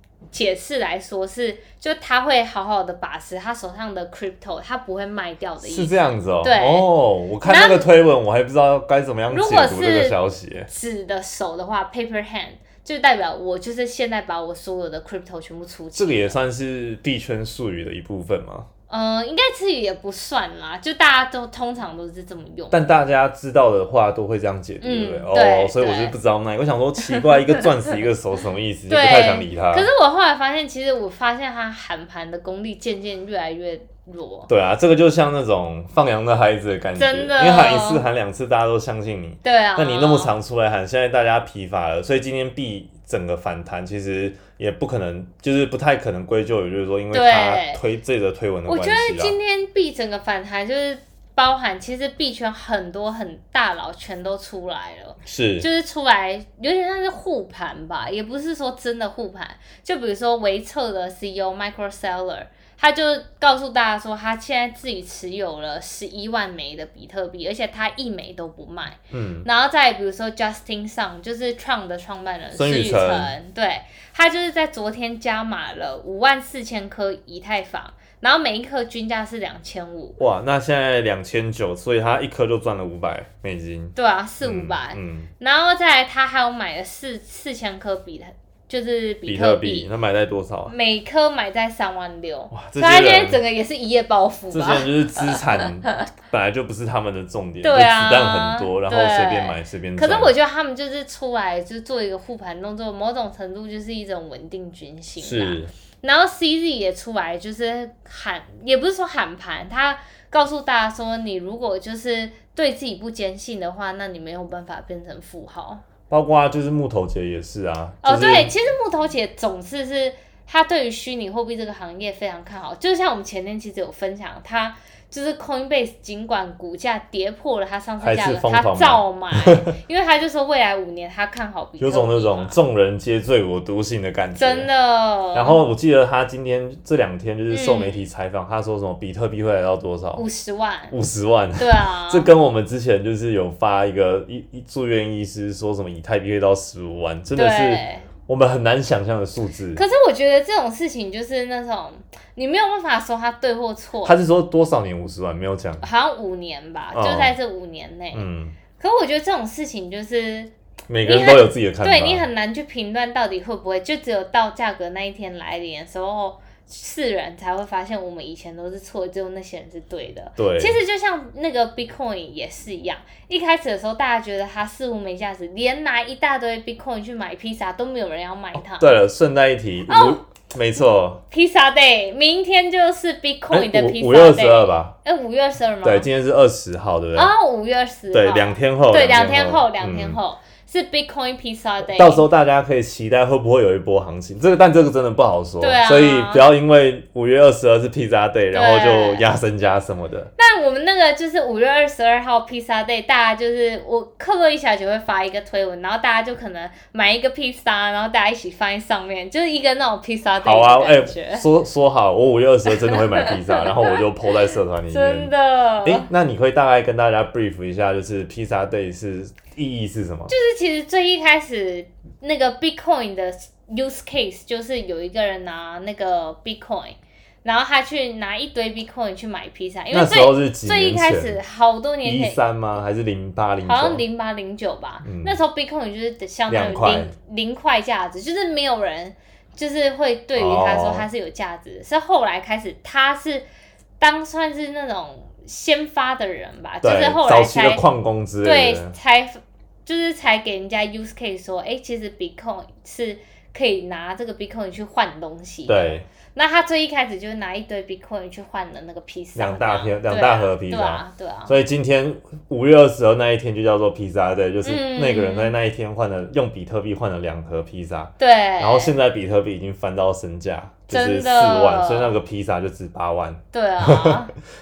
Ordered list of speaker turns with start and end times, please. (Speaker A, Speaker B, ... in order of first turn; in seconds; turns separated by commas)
Speaker A: 0.3-7.9, Speaker B: 5.6-10.7, Speaker A: 9.3-16.4, Speaker B: 15.9-18.7, Speaker A: 18.9-22.9, Speaker B: 22.7-29.9, Speaker A: 24.8-26.2, Speaker A: 27.2-27.6, Speaker A: 28.9-34.5, Speaker B: 34.5-49.4, Speaker A: 37.0-38.0, Speaker A: 39.4-40.3, Speaker A: 47.1-47.8, Speaker A: 48.7-80.2, Speaker B: 55.3-55.7, Speaker B: 69.1-69.5, Speaker B: 72.5-73.3, Speaker B: 80.2-85.3, Speaker A: 84.0-89.9, Speaker B: 89.3-90.7, Speaker A: 90.7-96.0, Speaker B: 92.5-93.4, Speaker B: 94.5-100.3, Speaker A: 97.6-115.8, Speaker B: 105.2-105.7, Speaker B: 116.1-118.5, Speaker A: 118.0-132.6, Speaker B: 128.0-129.7, Speaker B: 131.8-134.7, Speaker A: 134.4-135.6, Speaker B: 135.3-140.3, Speaker A: 137.5-138.1, Speaker A: 140.2-140.9, Speaker B: 140.9-149.8, Speaker A: 141.6-142.3, Speaker A: 147.3-148.1, Speaker A: 149.8-154.2, Speaker B: 154.0-155.8, Speaker A: 155.8-158.3, Speaker B: 156.9-157.3, Speaker B: 158.1-158.6, Speaker A: 158.8-160.5, Speaker B: 160.9-162.3, Speaker A: 161.0-179.0, Speaker B: 170.4-170.8, Speaker B: 178.6-181.2, Speaker A: 179.9-180.2, Speaker A: 181.3-186.1, Speaker B: 183.5-184.9, Speaker B: 185.8-187.3, Speaker A: 187.2-192.3, Speaker B: 188.1-190.2, Speaker B: 191.8-200.3, Speaker A: 195.6-196.5, Speaker A: 198.5-199.3, Speaker A: 200.4-211.5, Speaker B: 210.4-215.3, Speaker A: 212.8-214.0, Speaker A: 214.9-216.1, Speaker B: 215.8-220.3, Speaker A: 220.3-232.4, Speaker B: 229.9-231.4, Speaker B: 232.0-234.0, Speaker A: 233.6-243.5, Speaker B: 235.0-235.4, Speaker B: 236.5-237.1, Speaker B: 240.3-241.1, Speaker A: 244.0-247.8, Speaker B: 246.8-248.9, Speaker A: 248.4-261.6, Speaker B: 255.7-256.1, Speaker B: 259.4-274.2, Speaker A: 264.6-265.6, Speaker A: 268.2-268.9, Speaker A: 270.9-272.2, Speaker A: 273.5-274.3